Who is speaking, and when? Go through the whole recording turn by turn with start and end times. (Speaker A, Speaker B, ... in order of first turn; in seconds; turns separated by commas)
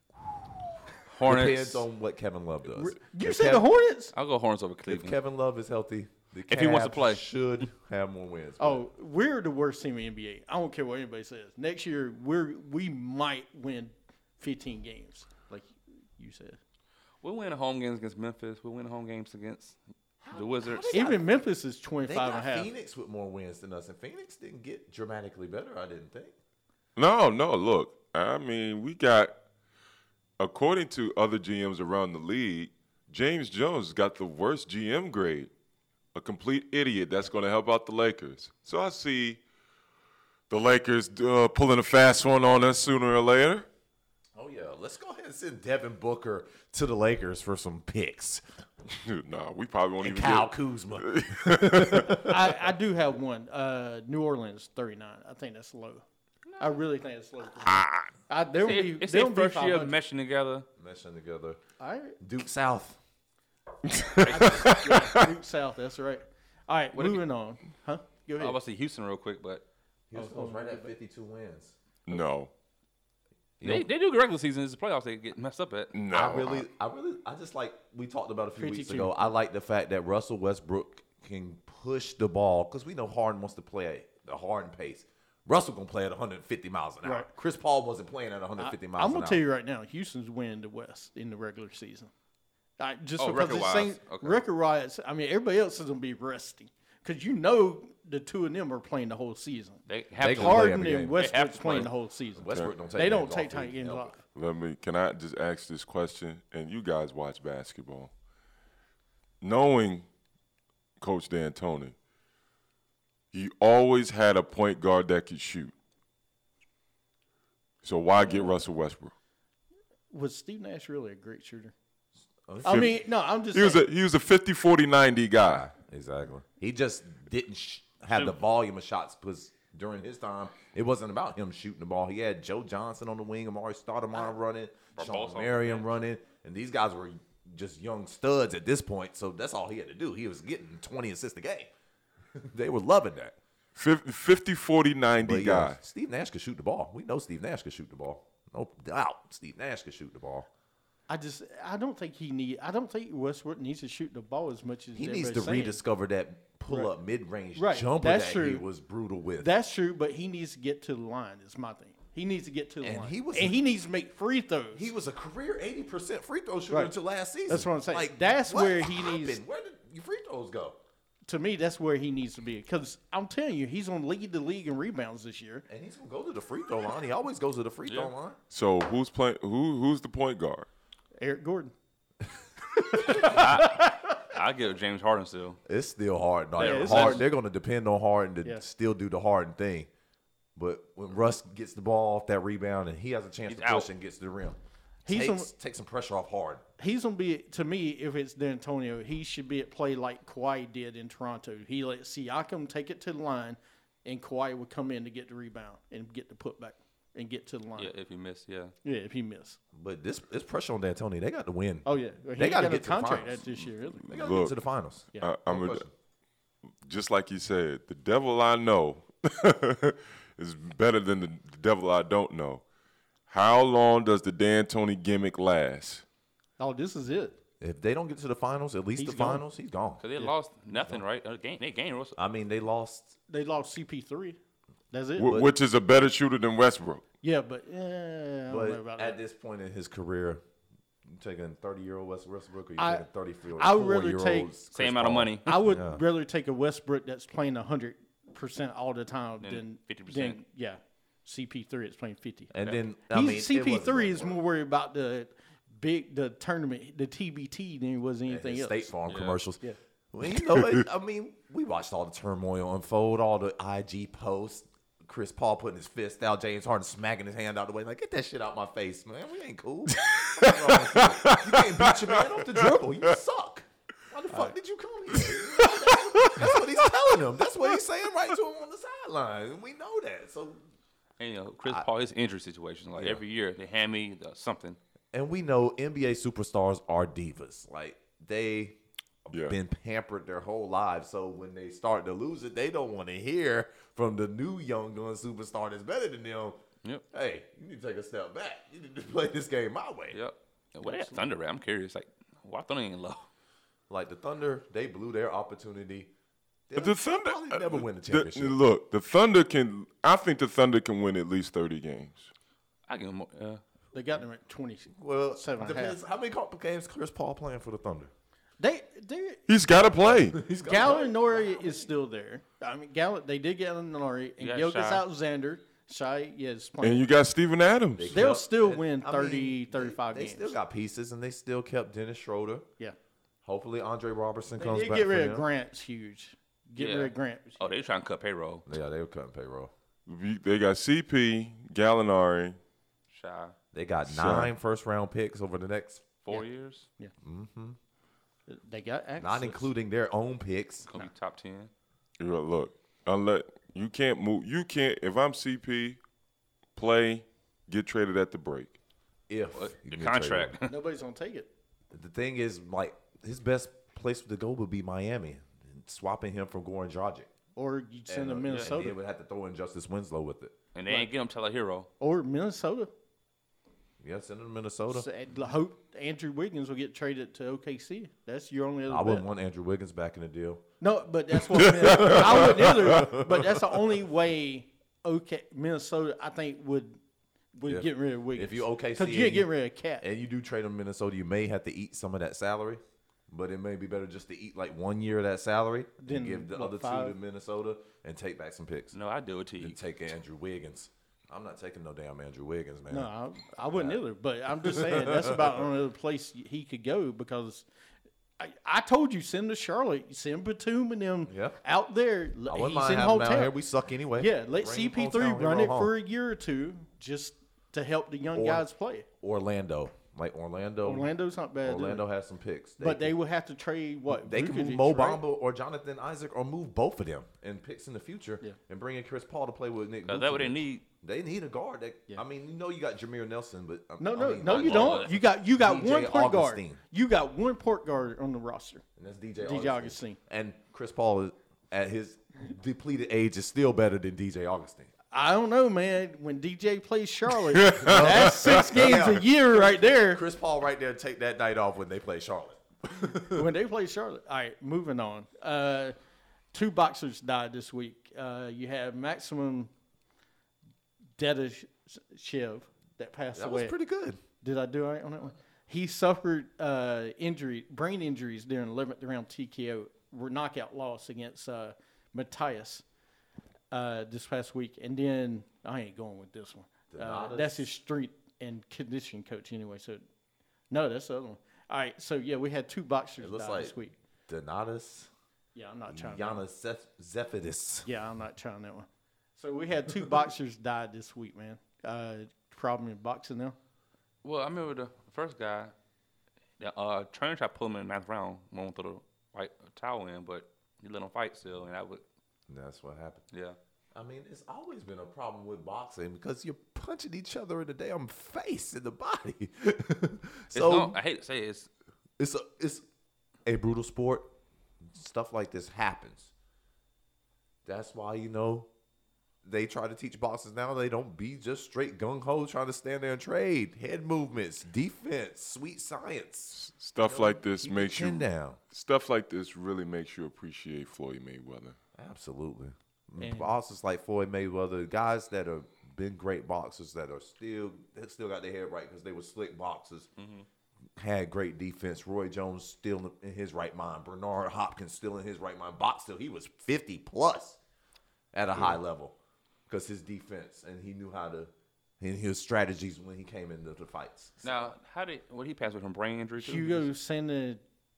Speaker A: 1.1-1.9, Speaker B: 1.2-3.7, Speaker C: 2.7-4.1, Speaker A: 4.1-5.2, Speaker B: 4.9-8.8, Speaker A: 6.5-7.3, Speaker C: 8.6-16.6, Speaker A: 17.2-19.8, Speaker B: 20.2-21.3, Speaker A: 20.3-21.1, Speaker C: 20.9-22.7, Speaker B: 22.0-26.3, Speaker D: 27.0-29.3, Speaker D: 30.4-35.5, Speaker D: 36.1-39.4, Speaker D: 40.5-43.7, Speaker B: 44.4-48.4, Speaker D: 48.9-52.3, Speaker B: 50.0-52.5, Speaker C: 52.2-56.0, Speaker C: 56.6-59.9, Speaker A: 58.5-60.7, Speaker B: 60.8-61.6, Speaker C: 61.8-62.2, Speaker B: 62.2-63.0, Speaker D: 63.9-65.3, Speaker A: 64.2-64.8, Speaker C: 64.3-68.6, Speaker A: 66.9-67.2, Speaker A: 68.4-69.7, Speaker B: 70.1-71.8, Speaker C: 70.2-70.9, Speaker D: 72.1-72.5, Speaker B: 73.6-73.9, Speaker A: 73.6-76.0, Speaker D: 75.9-76.7, Speaker B: 76.1-89.4, Speaker C: 78.6-79.2, Speaker C: 87.0-87.3, Speaker C: 88.6-92.1, Speaker C: 92.8-104.2, Speaker A: 93.2-94.4, Speaker A: 99.9-101.9, Speaker B: 100.2-101.3, Speaker B: 102.3-104.2, Speaker D: 104.3-108.1, Speaker D: 109.4-110.1, Speaker D: 111.0-112.0, Speaker D: 113.3-115.7, Speaker D: 117.8-119.1, Speaker C: 118.2-118.5, Speaker C: 120.1-121.7, Speaker B: 122.5-123.0, Speaker C: 122.6-123.8, Speaker D: 122.7-122.9, Speaker D: 123.5-125.7, Speaker B: 125.5-141.7, Speaker A: 134.9-135.9, Speaker B: 142.3-143.4, Speaker D: 143.8-145.8, Speaker B: 145.2-150.5, Speaker C: 151.1-155.8, Speaker B: 154.9-159.5, Speaker C: 157.6-158.7, Speaker C: 159.4-164.9, Speaker B: 162.8-163.6, Speaker B: 164.7-170.8, Speaker C: 167.5-169.4, Speaker C: 171.3-175.7, Speaker B: 175.7-178.4, Speaker A: 177.9-178.1, Speaker D: 178.5-180.7, Speaker C: 181.2-181.7, Speaker C: 183.0-184.1, Speaker B: 183.0-183.3, Speaker A: 183.1-185.6, Speaker B: 185.7-189.9, Speaker A: 186.6-187.3, Speaker C: 186.6-187.3, Speaker B: 190.6-196.6, Speaker A: 193.5-193.9, Speaker C: 195.1-195.5, Speaker C: 196.8-207.9, Speaker A: 207.8-208.7, Speaker C: 208.8-209.6, Speaker B: 209.7-215.9, Speaker C: 211.8-214.1, Speaker D: 214.1-214.6, Speaker D: 215.2-215.9, Speaker D: 216.8-222.6, Speaker D: 223.3-226.0, Speaker C: 226.6-227.4, Speaker B: 227.6-230.0, Speaker C: 229.0-229.4, Speaker A: 230.0-232.2, Speaker B: 230.8-231.0, Speaker B: 232.2-233.2, Speaker C: 233.3-234.4, Speaker C: 234.9-235.3, Speaker D: 235.2-237.0, Speaker B: 235.2-235.5, Speaker C: 237.2-239.2, Speaker B: 238.5-240.4, Speaker B: 241.1-246.0, Speaker C: 242.8-244.5, Speaker A: 244.7-245.6, Speaker C: 245.4-252.5, Speaker A: 249.4-250.4, Speaker B: 252.5-254.4, Speaker C: 253.1-258.9, Speaker B: 258.3-280.6, Speaker A: 259.1-259.4, Speaker D: 260.5-260.8, Speaker D: 269.9-272.7, Speaker D: 275.3-276.5, Speaker A: 281.2-284.8, Speaker B: 283.0-283.2, Speaker B: 285.1-296.6, Speaker D: 289.3-289.6, Speaker B: 297.1-300.2, Speaker A: 300.1-303.3, Speaker C: 300.8-301.2, Speaker B: 303.9-306.1, Speaker B: 306.7-308.6, Speaker D: 306.8-312.3, Speaker A: 312.9-313.6, Speaker C: 313.9-316.0, Speaker B: 314.9-318.1, Speaker C: 318.6-319.4, Speaker D: 319.5-320.4, Speaker B: 319.9-321.9, Speaker C: 320.6-327.1, Speaker A: 324.4-325.0, Speaker D: 326.8-328.2, Speaker B: 328.0-332.7, Speaker C: 328.1-330.6, Speaker B: 333.4-335.5, Speaker C: 334.6-337.8, Speaker A: 336.8-338.7, Speaker B: 338.7-339.7, Speaker D: 340.1-342.6, Speaker A: 343.1-343.6, Speaker B: 343.7-346.1, Speaker D: 344.1-344.5, Speaker A: 346.2-346.9, Speaker B: 347.2-347.8, Speaker C: 348.5-349.7, Speaker B: 349.2-350.9, Speaker A: 350.9-351.7, Speaker D: 352.2-356.0, Speaker D: 356.8-358.8, Speaker B: 359.3-360.6, Speaker A: 359.6-360.8, Speaker C: 360.7-361.5, Speaker B: 361.9-367.3, Speaker C: 367.6-368.9, Speaker B: 368.1-370.6, Speaker A: 368.5-368.8, Speaker A: 370.8-371.9, Speaker C: 372.0-372.9, Speaker B: 374.0-375.1, Speaker C: 374.9-379.3, Speaker B: 378.9-380.6, Speaker C: 380.8-387.0, Speaker B: 381.5-383.7, Speaker D: 381.6-382.5, Speaker C: 387.6-390.0, Speaker B: 387.6-389.5, Speaker B: 390.0-399.0, Speaker C: 396.0-397.2, Speaker A: 398.9-399.8, Speaker B: 399.6-403.1, Speaker C: 402.9-407.7, Speaker B: 403.7-404.0, Speaker B: 404.6-405.7, Speaker C: 408.4-413.6, Speaker B: 411.3-411.6, Speaker B: 412.5-415.9, Speaker C: 414.1-419.1, Speaker B: 418.3-418.7, Speaker B: 419.2-421.1, Speaker C: 420.8-422.1, Speaker B: 421.6-423.1, Speaker C: 422.8-425.2, Speaker B: 424.1-436.8, Speaker A: 430.1-430.8, Speaker C: 434.0-438.8, Speaker A: 434.4-435.2, Speaker B: 439.0-444.9, Speaker C: 439.4-440.2, Speaker C: 445.1-450.2, Speaker D: 447.5-448.7, Speaker B: 447.7-453.5, Speaker C: 453.3-455.9, Speaker C: 456.5-459.7, Speaker C: 461.2-463.8, Speaker B: 463.4-464.2, Speaker C: 464.4-472.8, Speaker C: 473.7-480.0, Speaker B: 476.9-477.7, Speaker C: 480.7-484.0, Speaker B: 483.2-485.1, Speaker C: 485.6-486.4, Speaker B: 485.9-487.9, Speaker C: 487.9-493.6, Speaker A: 494.2-495.8, Speaker A: 496.6-502.0, Speaker B: 502.5-503.3, Speaker A: 503.3-503.6, Speaker B: 503.9-511.0, Speaker A: 510.5-511.7, Speaker B: 512.2-512.9, Speaker B: 513.5-516.3, Speaker B: 517.6-518.7, Speaker B: 519.4-528.6, Speaker D: 526.5-531.8, Speaker B: 532.0-540.1, Speaker C: 533.2-533.5, Speaker A: 540.2-540.5, Speaker B: 541.0-547.6, Speaker B: 548.3-549.2, Speaker B: 549.7-554.7, Speaker A: 554.4-556.9, Speaker C: 556.4-557.6